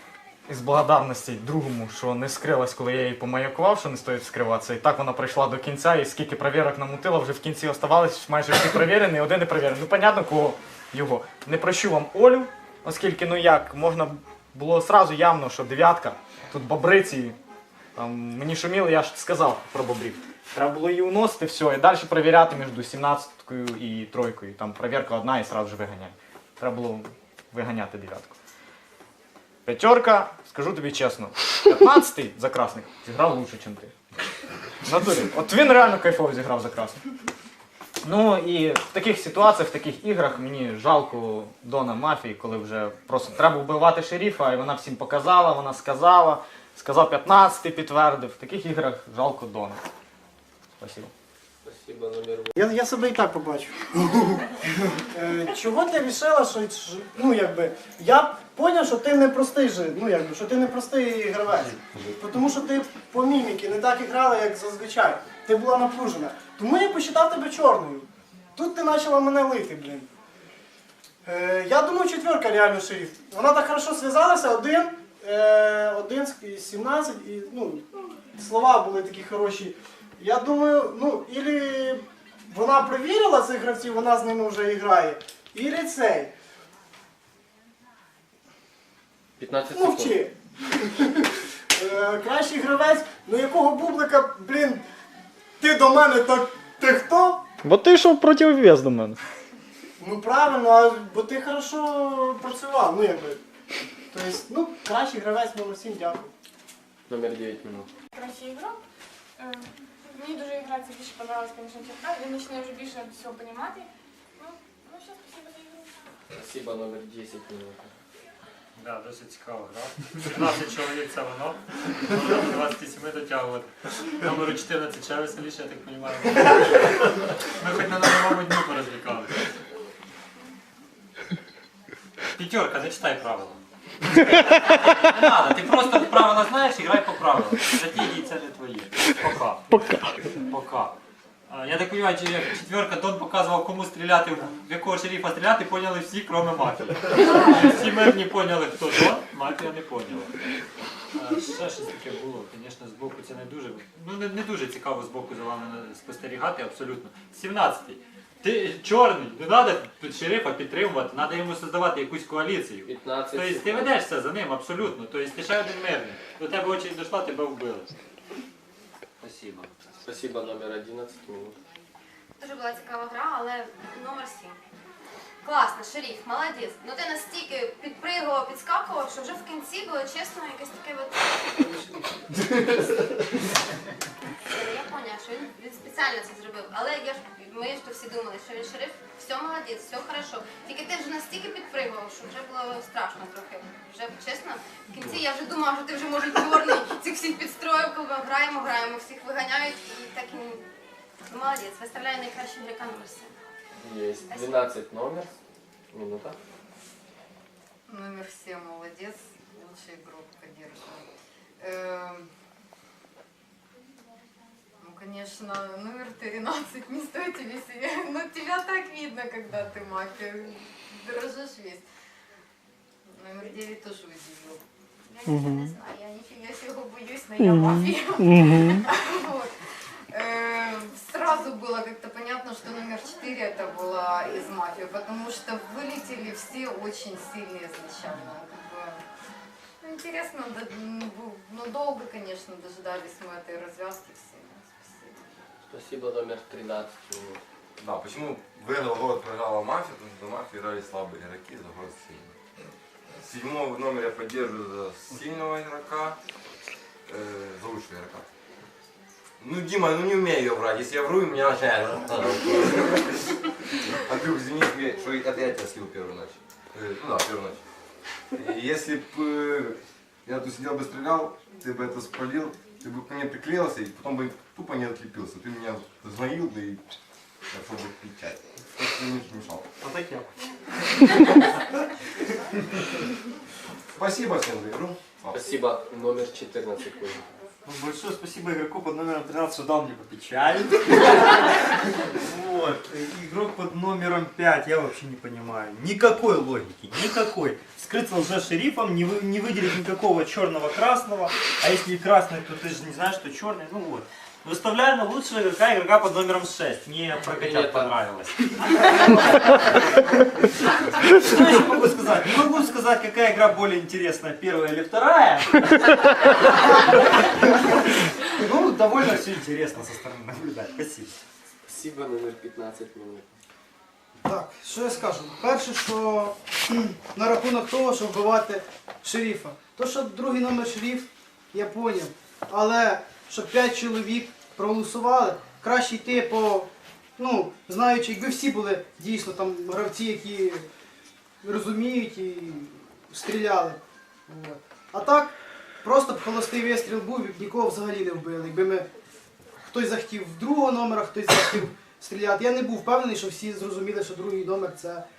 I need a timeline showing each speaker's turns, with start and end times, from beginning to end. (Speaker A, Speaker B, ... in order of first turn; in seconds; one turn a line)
Speaker A: 0.5-17.4
Speaker A: 18.0-28.4
Speaker A: 29.7-33.9
Speaker A: 34.9-37.0
Speaker A: 38.0-49.8
Speaker A: 50.8-51.1
Speaker B: 51.6-52.6
Speaker C: 52.6-54.4
Speaker C: 55.0-70.1
Speaker C: 71.2-86.3
Speaker B: 89.4-90.2
Speaker C: 89.7-94.8
Speaker C: 95.6-97.4
Speaker A: 97.6-99.2
Speaker C: 100.0-103.4
Speaker C: 104.1-106.3
Speaker B: 107.1-107.9
Speaker D: 108.1-108.8
Speaker D: 109.4-113.9
Speaker D: 114.4-115.9
Speaker B: 116.3-117.9
Speaker E: 118.8-127.0
Speaker E: 127.6-129.3
Speaker E: 132.4-133.6
Speaker E: 135.1-139.7
Speaker E: 140.5-141.0
Speaker E: 141.5-150.3
Speaker E: 151.2-167.9
Speaker B: 162.9-163.9
Speaker E: 169.2-169.7
Speaker B: 170.1-171.6
Speaker F: 172.4-174.6
Speaker F: 175.4-182.0
Speaker F: 184.5-200.6
Speaker F: 201.3-203.3
Speaker B: 203.8-205.4
Speaker F: 204.3-204.6
Speaker B: 205.9-206.4
Speaker G: 207.9-211.1
Speaker G: 211.6-212.3
Speaker G: 214.8-221.8
Speaker G: 223.1-224.6
Speaker G: 227.6-229.5
Speaker G: 230.1-239.0
Speaker G: 239.8-245.2
Speaker B: 245.7-247.4
Speaker H: 247.8-252.3
Speaker H: 253.2-256.2
Speaker H: 257.1-258.2
Speaker H: 259.4-263.1
Speaker H: 264.0-267.6
Speaker H: 268.4-276.8
Speaker H: 277.5-279.6
Speaker I: 279.9-280.3
Speaker H: 284.0-285.4
Speaker B: 285.3-287.2
Speaker I: 287.7-290.8
Speaker I: 292.4-306.9
Speaker B: 307.3-308.0
Speaker E: 307.3-308.3
Speaker I: 311.4-315.3
Speaker I: 318.4-321.1
Speaker B: 321.7-323.4
Speaker J: 324.2-340.6
Speaker J: 341.4-348.9
Speaker J: 349.7-355.0